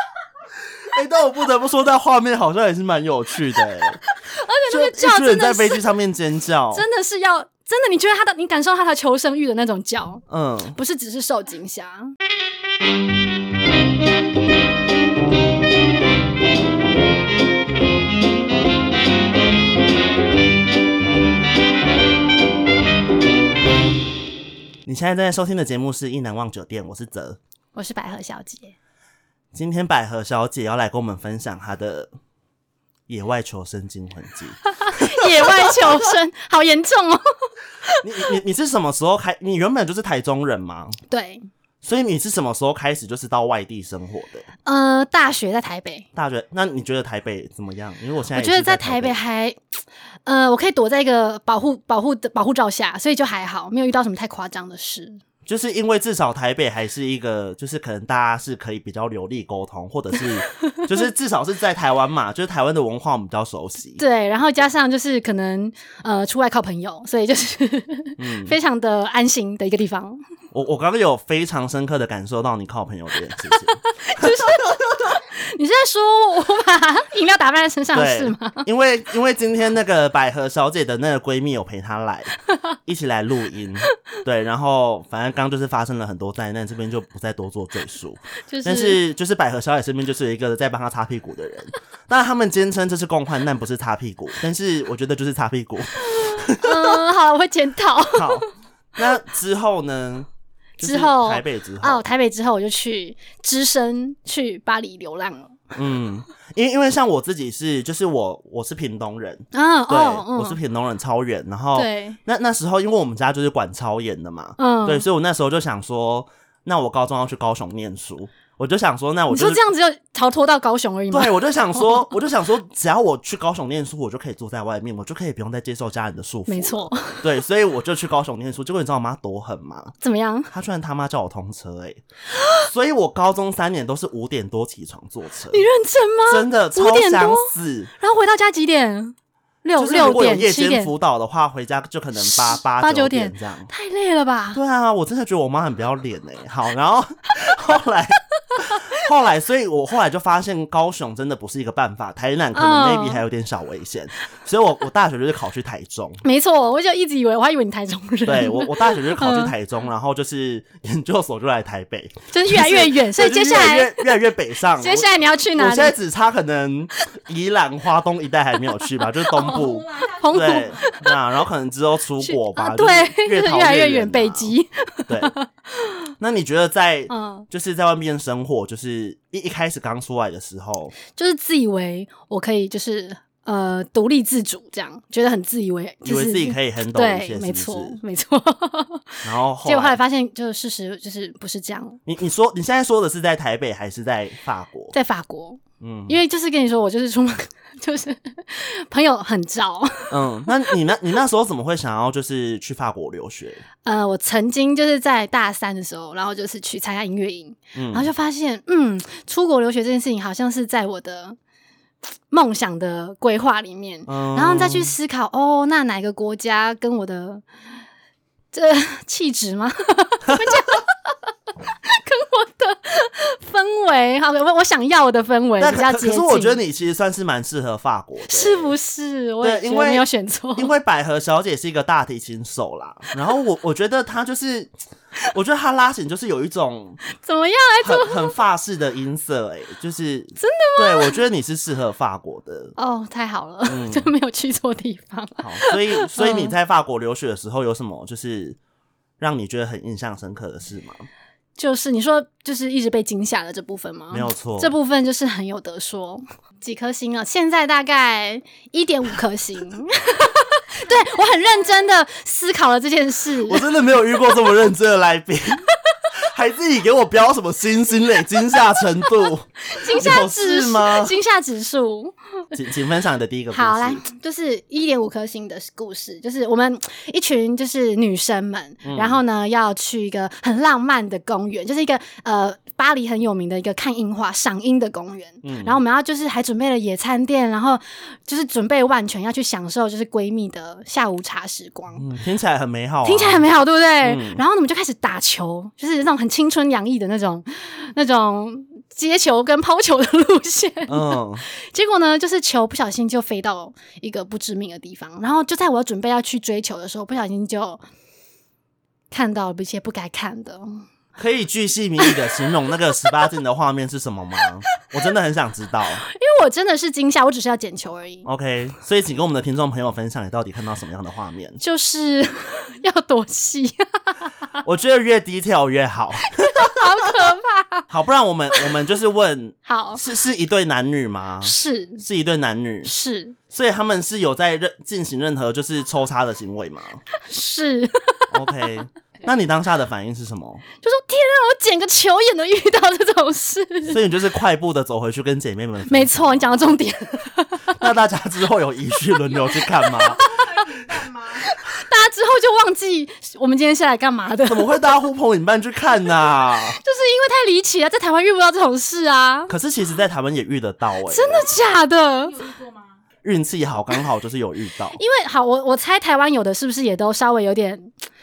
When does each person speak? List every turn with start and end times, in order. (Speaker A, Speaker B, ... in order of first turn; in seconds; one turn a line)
Speaker A: 0.8-4.0
Speaker B: 4.2-5.8
Speaker A: 4.7-6.8
Speaker B: 6.7-10.2
Speaker A: 10.3-10.8
Speaker B: 10.8-12.2
Speaker A: 24.9-27.4
Speaker B: 27.8-28.8
Speaker A: 29.5-32.1
Speaker A: 33.1-36.1
Speaker B: 34.7-38.0
Speaker A: 38.0-41.0
Speaker B: 41.1-41.5
Speaker A: 41.8-44.5
Speaker B: 44.6-46.1
Speaker A: 46.2-49.2
Speaker B: 48.3-49.6
Speaker B: 50.3-55.2
Speaker A: 55.5-64.0
Speaker B: 64.0-70.2
Speaker A: 68.2-68.5
Speaker A: 70.5-74.8
Speaker B: 73.7-78.7
Speaker A: 77.9-82.3
Speaker A: 82.9-97.0
Speaker B: 88.5-89.0
Speaker B: 96.2-98.4
Speaker A: 98.1-98.5
Speaker A: 99.0-102.0
Speaker B: 100.8-105.6
Speaker A: 105.8-119.6
Speaker B: 109.5-110.6
Speaker B: 111.7-112.2
Speaker B: 114.6-115.0
Speaker B: 119.3-122.1
Speaker A: 121.1-129.9
Speaker B: 126.5-127.3
Speaker B: 130.0-130.5
Speaker A: 130.5-132.0
Speaker B: 132.3-132.7
Speaker A: 132.6-135.6
Speaker B: 135.5-140.9
Speaker A: 136.3-137.9
Speaker A: 139.8-143.7
Speaker B: 142.2-144.6
Speaker A: 144.5-156.2
Speaker B: 152.5-153.2
Speaker B: 156.2-159.5
Speaker A: 158.2-174.6
Speaker B: 162.3-164.1
Speaker B: 164.7-166.0
Speaker B: 168.8-171.2
Speaker B: 172.2-175.9
Speaker A: 175.1-175.3
Speaker A: 176.2-180.9
Speaker B: 177.1-177.4
Speaker B: 181.1-192.0
Speaker A: 186.1-188.0
Speaker A: 189.2-190.0
Speaker A: 192.1-194.9
Speaker B: 194.9-200.7
Speaker A: 195.8-196.2
Speaker A: 200.1-203.6
Speaker B: 203.8-211.4
Speaker A: 207.8-208.1
Speaker B: 212.3-217.4
Speaker A: 214.1-214.9
Speaker B: 218.5-226.6
Speaker A: 220.3-220.6
Speaker A: 225.6-228.7
Speaker B: 228.3-230.7
Speaker A: 229.4-234.7
Speaker A: 235.3-237.0
Speaker B: 237.1-238.4
Speaker A: 237.8-242.7
Speaker B: 240.4-241.2
Speaker B: 242.8-246.5
Speaker A: 243.7-244.1
Speaker A: 245.4-248.6
Speaker A: 249.2-251.1
Speaker B: 251.6-263.7
Speaker A: 254.1-254.7
Speaker A: 263.4-265.6
Speaker A: 266.2-271.1
Speaker B: 269.6-272.1
Speaker A: 272.5-274.0
Speaker B: 273.5-292.0
Speaker A: 278.9-279.2
Speaker A: 285.4-285.8
Speaker A: 292.0-293.5
Speaker B: 293.0-307.8
Speaker A: 294.0-294.4
Speaker A: 300.9-301.4
Speaker B: 309.1-310.9
Speaker A: 311.1-316.0
Speaker B: 312.1-312.3
Speaker B: 316.0-318.3
Speaker A: 318.2-321.6
Speaker B: 321.6-324.3
Speaker A: 324.6-326.8
Speaker B: 326.3-327.9
Speaker A: 327.9-332.9
Speaker B: 329.6-330.1
Speaker B: 331.4-332.0
Speaker B: 332.8-333.4
Speaker A: 333.5-337.0
Speaker B: 337.2-338.7
Speaker A: 338.3-340.6
Speaker B: 340.8-344.0
Speaker A: 343.9-346.7
Speaker B: 345.9-347.9
Speaker A: 347.7-350.7
Speaker B: 349.5-354.9
Speaker A: 354.5-356.8
Speaker B: 356.1-359.5
Speaker A: 359.5-361.4
Speaker B: 361.1-362.6
Speaker A: 363.2-365.0
Speaker B: 365.0-367.9